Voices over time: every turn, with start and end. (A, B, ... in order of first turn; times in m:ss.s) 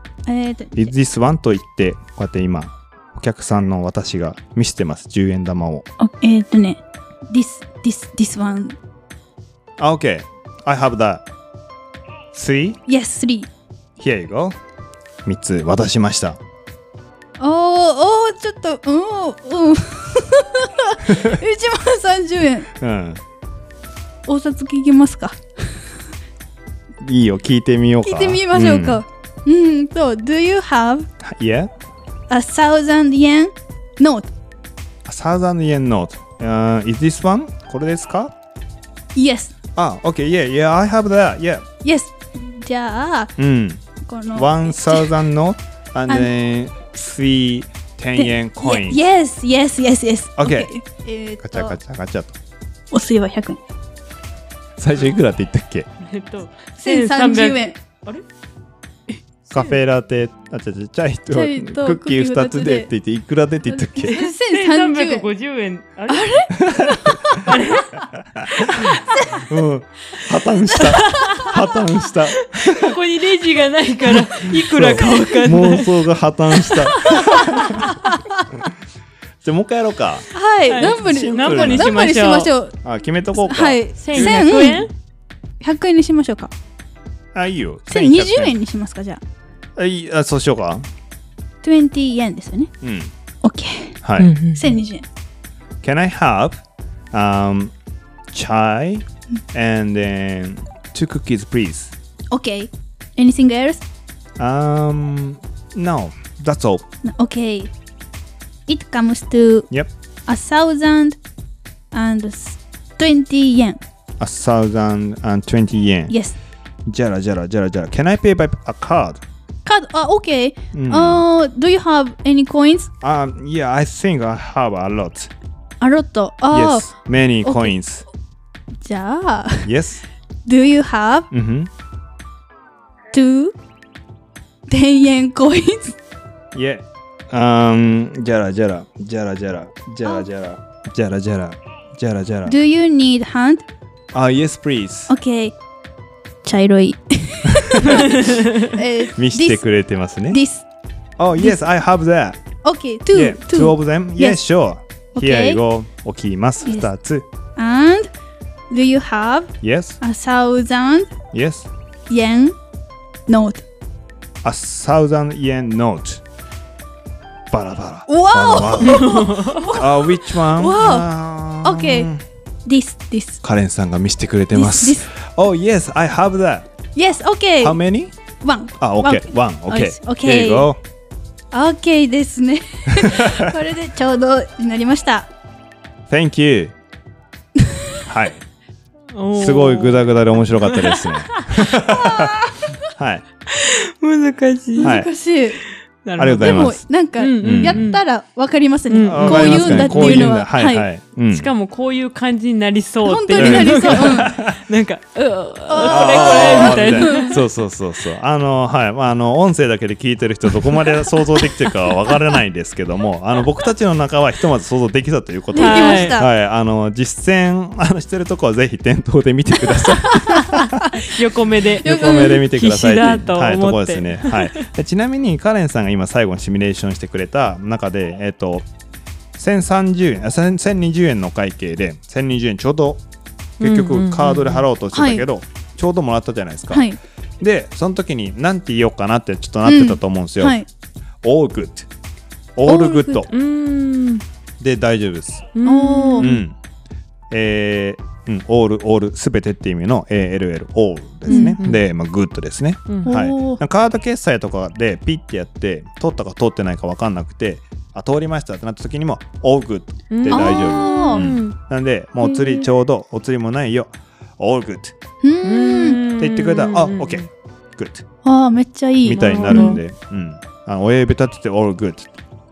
0:00.3-0:00.9 A
0:00.8-0:05.9 B
0:06.0-0:08.8 A
0:09.8-0:11.3 B
0:12.3-0:12.8 B
0:12.9-0:13.5 A
0:14.0-0:14.6 B
0:15.2-0:16.4 B
0:17.4-0:22.7 A
0:21.1-0:21.4 B
0:22.8-0:23.2 B
0:24.3-0:25.9 A
0:27.0-0:29.0 B
0:28.0-0:31.1 A
0:31.2-0:31.7 B
0:32.3-0:34.3 A
0:35.1-0:38.3 B
0:39.2-0:39.5 A
0:39.8-0:41.7 B
0:41.8-0:43.3 A
0:43.4-0:43.8 B
0:44.0-0:45.1 A
0:44.4-0:49.0 B
0:48.2-0:51.8 A
0:50.4-0:50.7 B
0:51.4-0:52.4 B
0:52.9-0:53.6 A
0:54.8-0:55.9 B
0:56.0-0:58.2 C
0:56.8-0:57.8 A
0:59.5-1:04.2 B
1:01.3-1:02.9 A
1:03.7-1:05.3 A
1:04.1-1:06.5 C
1:06.1-1:07.5 A
1:06.6-1:07.4 B
1:07.4-1:08.0 C
1:08.4-1:08.9 B
1:09.4-1:13.0 B
1:10.9-1:11.5 C
1:12.5-1:17.9 C
1:14.3-1:17.9 B
1:17.9-1:18.2 A
1:19.4-1:20.3 B
1:20.3-1:22.8 A
1:20.7-1:22.5 C
1:20.8-1:21.9 B
1:22.8-1:24.7 B
1:23.4-1:24.9 A
1:24.0-1:24.9 C
1:25.6-1:26.5 A
1:27.3-1:28.6 B
1:27.9-1:29.2 A
1:29.8-1:30.9 B
1:31.6-1:32.7 A
1:32.8-1:33.1 B
1:33.4-1:34.0 A
1:34.0-1:34.3 B
1:34.2-1:34.8 C
1:34.6-1:35.0 A
1:35.8-1:36.6 B
1:37.1-1:37.7 B
1:38.3-1:42.0 B
1:42.3-1:43.8 A
1:44.4-1:46.8 B
1:47.0-1:47.7 A
1:48.7-1:49.7 A
1:50.3-1:51.2 A
1:51.9-1:53.8 A
1:54.2-1:56.2 B
1:56.1-1:56.3 A
1:56.9-1:59.2 B
1:59.7-2:02.9 A
2:00.7-2:01.2 B
2:03.0-2:05.3 B
2:05.8-2:06.9 A
2:06.5-2:08.1 B
2:07.4-2:07.7 A
2:08.8-2:09.7 A
2:09.6-2:10.0 B
2:10.4-2:11.3 A
2:11.3-2:11.7 B
2:13.1-2:13.6 A
2:14.7-2:16.0 A
2:16.5-2:22.6 B
2:22.5-2:23.7 A
2:24.1-2:25.1 B
2:25.1-2:25.6 A
2:26.4-2:29.6 A
2:27.5-2:28.2 B
2:29.2-2:30.4 B
2:30.3-2:30.6 A
2:31.2-2:32.4 B
2:32.6-2:34.4 A
2:33.1-2:37.3 B
2:35.2-2:35.6 A
2:36.6-2:36.9 A
2:37.6-2:38.1 A
2:38.7-2:41.1 A
2:39.6-2:40.0 B
2:41.3-2:41.7 B
2:42.1-2:42.6 A
2:43.3-2:43.6 A
2:44.4-2:46.2 B
2:47.5-2:49.2 B
2:48.1-2:51.1 A
2:48.9-2:49.7 C
2:49.7-2:52.2 B
2:51.6-2:52.1 A
2:52.7-2:53.4 A
2:53.4-2:56.7 B
2:54.5-2:55.1 A
2:57.0-2:57.8 A
2:57.6-2:58.2 B
2:58.4-3:00.7 A
2:58.8-3:00.8 B
3:01.5-3:05.3 A
3:02.9-3:03.5 B
3:06.1-3:06.8 B
3:07.6-3:08.0 A
3:08.1-3:08.4 B
3:09.1-3:11.4 C
3:09.3-3:13.2 B
3:11.9-3:12.7 A
3:13.5-3:15.0 C
3:14.8-3:15.6 A
3:14.8-3:15.1 B
3:16.0-3:18.0 C
3:16.2-3:16.8 B
3:16.4-3:20.9 A
3:17.4-3:17.8 B
3:18.9-3:20.4 C
3:19.1-3:21.5 B
3:21.3-3:27.4 C
3:23.0-3:24.3 A
3:23.4-3:24.6 B
3:25.7-3:27.4 A
3:25.9-3:40.9 B
3:35.5-3:36.3 A
3:35.6-3:36.2 C
3:39.8-3:40.5 A
3:40.9-3:44.7 C
3:41.8-3:42.4 A
3:41.8-3:48.7 B
3:49.4-3:53.0 B
3:53.6-4:00.6 B
3:53.6-3:54.7 C
3:54.9-3:55.2 A
3:56.7-3:57.0 A
3:59.6-4:00.7 A
4:01.2-4:01.9 B
4:02.6-4:03.3 B
4:02.7-4:03.3 A
4:03.3-4:04.2 C
4:04.6-4:05.5 B
4:05.6-4:06.4 C
4:05.6-4:06.3 A
4:06.2-4:06.6 B
4:07.3-4:25.0 B
4:11.3-4:11.6 A
4:11.3-4:11.8 C
4:13.0-4:13.6 A
4:20.1-4:21.6 C
4:20.3-4:21.3 A
4:22.2-4:22.6 A
4:25.2-4:26.0 A
4:25.4-4:27.3 C
4:26.2-4:28.1 B
4:28.2-4:29.8 A
4:29.0-4:32.1 B
4:29.2-4:29.8 C